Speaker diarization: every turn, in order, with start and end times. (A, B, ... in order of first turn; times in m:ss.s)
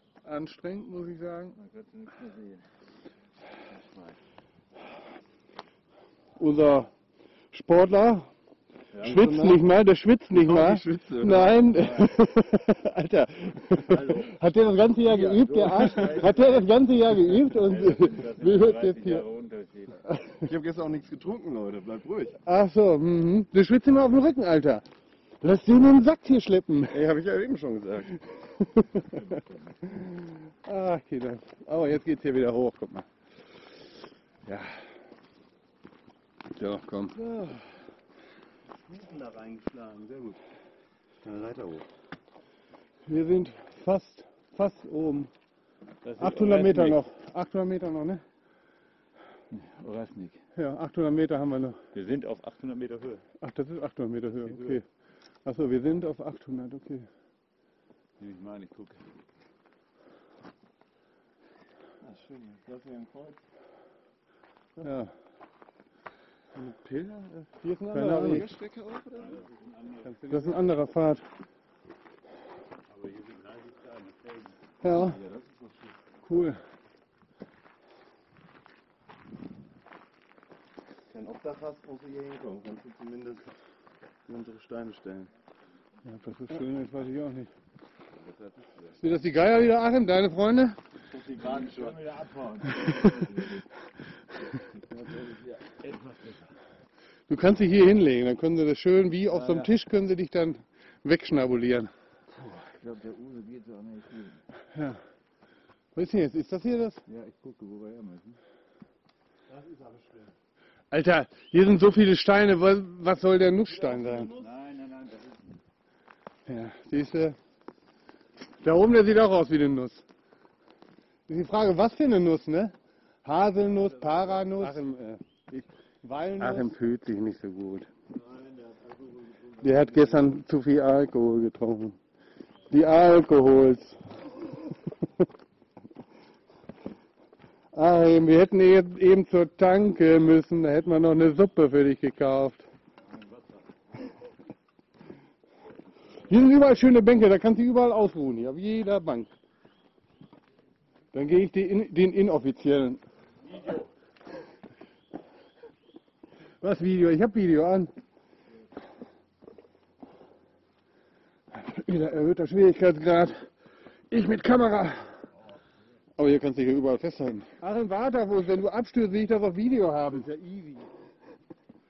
0:00.2-0:01.6 A
0:01.6-0:02.6 B
0:03.8-0:04.2 B
0:06.4-0:06.9 A
0:07.5-0:08.3 A
0:08.9-0:09.4 B
0:09.0-0:19.2 A
0:09.0-0:09.6 C
0:10.3-0:11.7 C
0:11.7-0:12.1 B
0:13.8-0:14.4 B
0:15.0-0:20.0 B
0:20.4-0:22.4 C
0:22.4-0:24.8 A
0:25.4-0:27.0 A
0:26.9-0:28.1 C
0:28.6-0:29.1 A
0:29.0-0:30.0 B
0:30.6-0:33.1 A
0:36.5-0:37.5 A
0:38.8-0:40.4 C
0:41.2-0:41.9 C
0:43.0-0:45.3 A
0:46.0-0:47.0 B
0:46.2-0:48.2 A
0:49.5-0:50.4 B
0:50.6-0:51.8 A
0:51.9-0:53.2 B
0:53.4-0:54.8 A
0:54.4-0:54.8 B
0:55.4-0:57.1 A
0:58.2-0:59.0 B
1:02.0-1:03.4 C
1:04.8-1:05.1 A
1:06.5-1:09.4 C
1:07.6-1:08.5 A
1:09.2-1:10.7 B
1:10.3-1:11.2 A
1:12.9-1:15.8 B
1:14.8-1:15.2 A
1:16.2-1:16.6 A
1:21.1-1:23.5 C
1:24.3-1:25.3 C
1:26.1-1:27.5 A
1:28.2-1:29.0 C
1:29.0-1:30.8 A
1:31.1-1:32.0 C
1:31.3-1:33.7 B
1:34.9-1:36.5 B
1:37.3-1:41.9 A
1:39.3-1:39.7 B
1:42.3-1:44.4 B
1:44.7-1:45.0 A
1:46.0-1:47.0 A
1:47.1-1:48.4 B
1:49.5-1:50.3 C
1:50.9-1:54.3 A
1:53.7-1:54.5 C
1:54.4-1:55.6 B
1:56.5-1:57.4 A
1:58.6-2:00.0 A
2:01.3-2:07.9 A
2:03.8-2:04.8 B
2:03.8-2:04.6 C
2:08.3-2:09.8 C
2:09.6-2:10.2 B
2:09.6-2:12.0 A
2:12.7-2:14.0 A
2:17.7-2:22.7 A
2:23.0-2:24.0 B
2:26.3-2:29.3 A
2:31.1-2:33.0 A
2:33.4-2:33.9 B
2:36.6-2:37.9 A
2:41.5-2:43.5 A
2:44.1-2:45.2 A
2:46.2-2:50.3 A
2:50.2-2:50.9 C